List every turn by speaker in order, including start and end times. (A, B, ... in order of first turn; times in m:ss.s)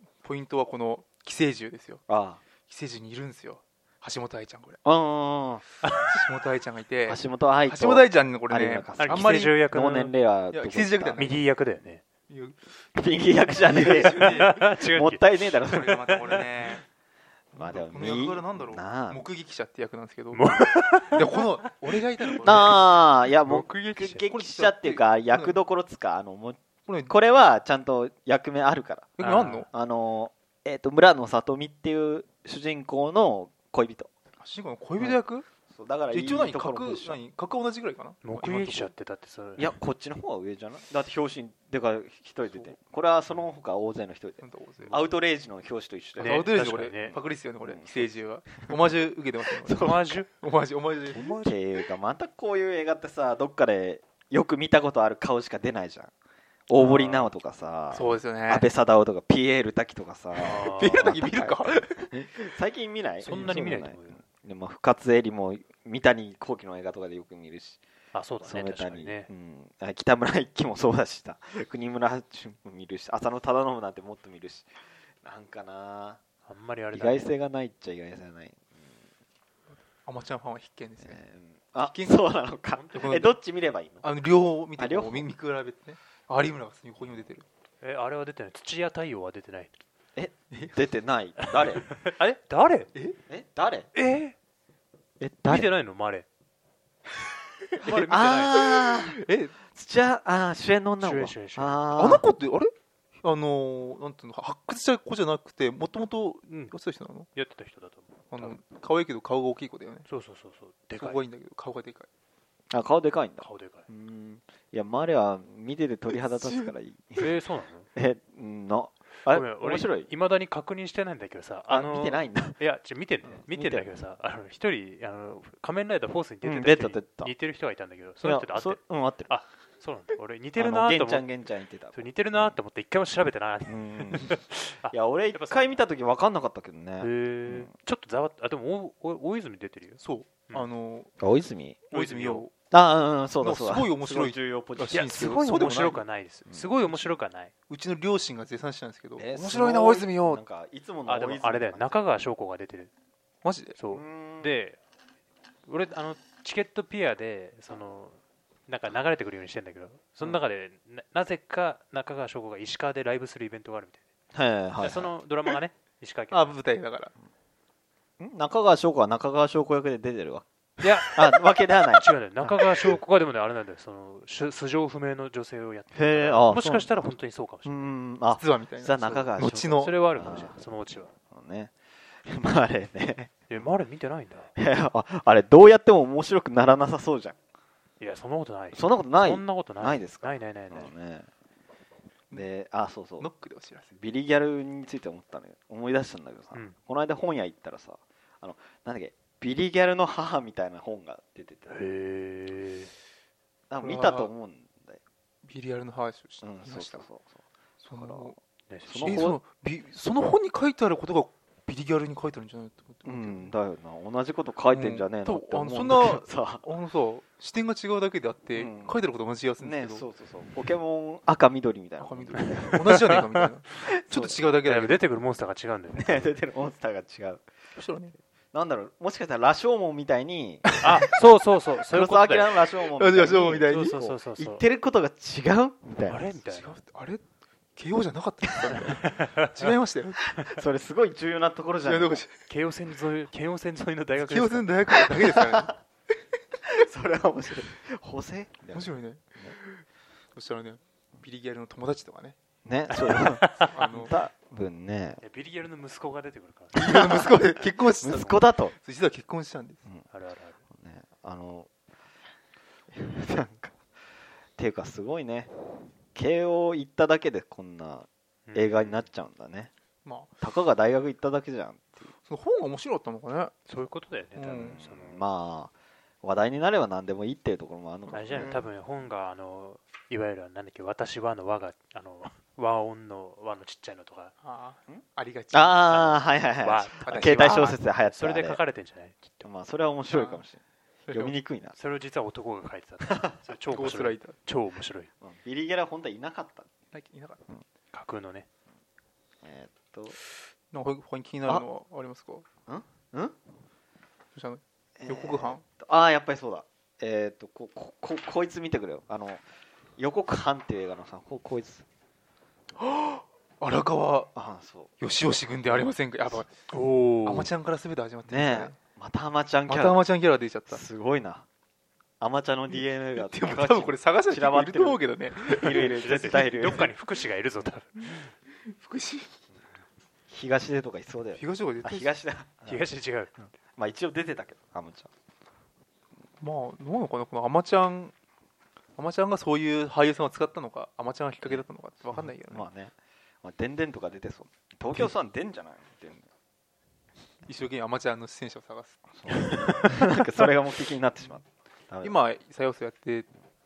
0:00.2-0:02.0 A
0:02.1-0:02.4 B
0:02.7-0:04.8 A
0:04.8-0:05.6 B
0:05.8-0:06.2 C
0:06.1-0:09.6 A
0:07.1-0:11.3 B
0:09.0-0:10.1 C
0:10.5-0:11.4 A
0:11.2-0:12.0 C
0:12.3-0:12.6 A
0:12.9-0:16.1 B
0:13.6-0:14.7 A
0:14.1-0:15.2 C
0:15.6-0:16.8 A
0:15.8-0:16.8 C
0:17.5-0:19.2 B
0:17.6-0:20.4 A
0:20.3-0:21.4 C
0:21.1-0:22.8 A
0:22.3-0:22.7 C
0:22.4-0:29.2 B
0:23.4-0:24.2 C
0:24.1-0:25.6 A
0:26.9-0:27.1 A
0:29.2-0:29.7 A
0:29.2-0:29.7 C
0:29.7-0:34.1 B
0:34.4-0:35.4 A
0:35.0-0:37.2 B
0:36.1-0:38.9 A
0:38.2-0:39.8 C
0:39.6-0:46.5 B
0:42.4-0:42.8 A
0:44.4-0:45.0 A
0:46.2-0:51.6 A
0:46.2-0:47.2 C
0:47.1-0:48.8 B
0:49.5-0:50.2 B
0:49.8-0:50.3 C
0:51.1-0:56.1 B
0:56.7-1:07.8 B
0:56.8-0:57.3 A
0:57.9-0:58.7 A
1:00.4-1:02.4 A
1:00.4-1:01.1 C
1:03.2-1:04.2 C
1:08.1-1:09.3 C
1:08.4-1:14.7 B
1:15.2-1:16.2 B
1:16.5-1:17.3 C
1:16.9-1:18.9 B
1:19.8-1:21.2 A
1:21.0-1:24.1 B
1:21.8-1:22.3 A
1:22.7-1:23.2 C
1:22.9-1:23.3 A
1:24.0-1:27.4 A
1:24.8-1:25.3 B
1:27.8-1:29.7 C
1:30.2-1:31.9 B
1:30.5-1:30.8 A
1:31.4-1:32.9 C
1:33.3-1:33.9 B
1:33.9-1:34.4 C
1:35.2-1:35.7 B
1:35.5-1:36.2 C
1:37.8-1:38.7 C
1:37.8-1:42.2 B
1:38.5-1:39.5 A
1:41.0-1:41.8 C
1:42.0-1:47.3 A
1:46.5-1:46.7 C
1:47.3-1:48.6 C
1:48.3-1:50.1 A
1:50.1-1:51.2 C
1:51.0-1:52.1 A
1:52.7-1:57.3 B
1:53.4-1:53.9 C
1:56.1-1:56.7 A
1:57.2-1:57.9 C
1:57.9-2:00.1 B
1:59.3-2:11.3 C
2:01.7-2:02.6 B
2:03.2-2:03.9 B
2:06.4-2:07.3 B
2:08.2-2:09.3 B
2:10.6-2:12.6 B
2:11.9-2:15.8 C
2:13.7-2:14.4 B
2:14.9-2:17.7 B
2:17.0-2:20.6 C
2:20.0-2:21.1 A
2:21.2-2:21.8 B
2:21.9-2:22.5 C
2:21.9-2:22.5 A
2:22.7-2:25.5 B
2:23.4-2:26.0 A
2:24.9-2:27.5 C
2:26.5-2:27.2 B
2:27.7-2:30.4 A
2:29.2-2:32.1 B
2:31.0-2:32.9 C
2:33.4-2:33.8 A
2:33.8-2:34.8 C
2:33.9-2:34.5 B
2:35.7-2:44.0 C
2:44.3-2:45.1 B
2:44.8-2:46.6 C
2:46.3-2:47.1 A
2:48.2-2:50.4 B
2:50.8-2:51.4 C
2:51.1-2:53.0 B
2:51.9-2:57.9 C
2:55.9-2:56.9 B
2:57.6-3:00.6 B
2:58.4-3:00.0 A
2:59.8-3:01.1 C
3:01.3-3:01.7 B
3:02.2-3:03.3 B
3:03.5-3:04.5 C
3:04.6-3:07.4 B
3:08.0-3:10.9 C
3:08.7-3:11.3 B
3:12.3-3:13.3 B
3:13.2-3:13.9 A
3:13.9-3:21.8 B
3:21.7-3:22.9 C
3:23.7-3:25.0 B
3:23.8-3:24.3 A
3:25.4-3:27.0 A
3:26.4-3:28.3 B
3:27.8-3:28.4 A
3:28.7-3:29.3 C
3:28.9-3:29.4 B
3:29.0-3:33.5 A
3:33.0-3:36.7 B
3:34.7-3:40.0 A
3:38.5-3:39.0 B
3:39.6-3:43.0 B
3:42.0-3:45.0 A
3:42.4-3:43.5 C
3:43.8-3:44.4 B
3:44.6-3:46.3 C
3:45.9-3:47.4 B
3:47.8-3:48.1 A
3:48.5-3:51.1 B
3:50.7-3:51.0 A
3:50.8-3:52.6 C
3:51.9-3:56.3 B
3:52.9-3:54.0 A
3:53.7-3:54.6 C
3:56.1-3:56.8 C
3:56.5-3:57.2 A
3:57.8-4:00.4 A
3:58.7-3:59.7 C
4:00.4-4:02.2 B
4:01.8-4:02.5 A
4:02.5-4:04.7 C
4:04.2-4:05.7 A
4:06.7-4:09.6 B
4:08.7-4:12.4 A
4:12.6-4:15.2 B
4:13.0-4:13.8 C
4:13.5-4:14.2 A
4:15.2-4:17.4 C
4:16.7-4:19.8 A
4:16.8-4:17.3 B
4:18.0-4:18.7 B
4:20.1-4:20.6 C
4:20.7-4:21.7 B
4:22.9-4:23.7 B
4:24.6-4:25.5 B
4:26.1-4:29.7 B
4:28.5-4:29.1 C
4:30.0-4:30.3 A
4:30.4-4:32.1 B
4:32.2-4:33.5 A
4:33.7-4:35.3 C
4:34.3-4:34.8 A
4:34.5-4:35.7 B
4:36.2-4:38.6 B
4:38.1-4:44.3 C
4:44.4-4:46.1 A
4:44.9-4:48.6 B
4:45.9-4:49.5 C
4:47.0-4:47.8 A
4:49.4-4:51.7 B
4:50.1-4:50.4 A
4:51.1-4:51.3 A
4:51.7-4:55.1 C
4:53.1-4:53.3 B
4:53.7-4:54.4 A
4:55.2-4:56.7 B
4:56.9-4:57.4 A
4:57.9-4:58.5 C
4:59.4-5:00.2 B
5:00.7-5:02.4 A
5:02.7-5:03.4 B
5:04.3-5:05.6 A
5:05.0-5:09.4 B
5:10.0-5:11.8 B
5:12.8-5:14.3 A
5:14.3-5:16.4 B
5:15.0-5:16.7 A
5:16.7-5:17.5 C
5:17.2-5:18.8 A
5:18.3-5:20.0 B
5:19.7-5:20.8 A
5:20.7-5:21.4 B
5:22.2-5:26.9 B
5:22.7-5:26.8 A
5:25.6-5:28.3 C
5:28.6-5:29.4 A
5:30.3-5:32.9 B
5:31.3-5:32.1 A
5:32.7-5:33.4 C
5:33.7-5:35.1 B
5:36.4-5:38.1 A
5:39.0-5:42.7 A
5:41.4-5:46.2 B
5:47.4-5:50.1 A
5:49.2-5:52.2 B
5:52.0-5:53.3 A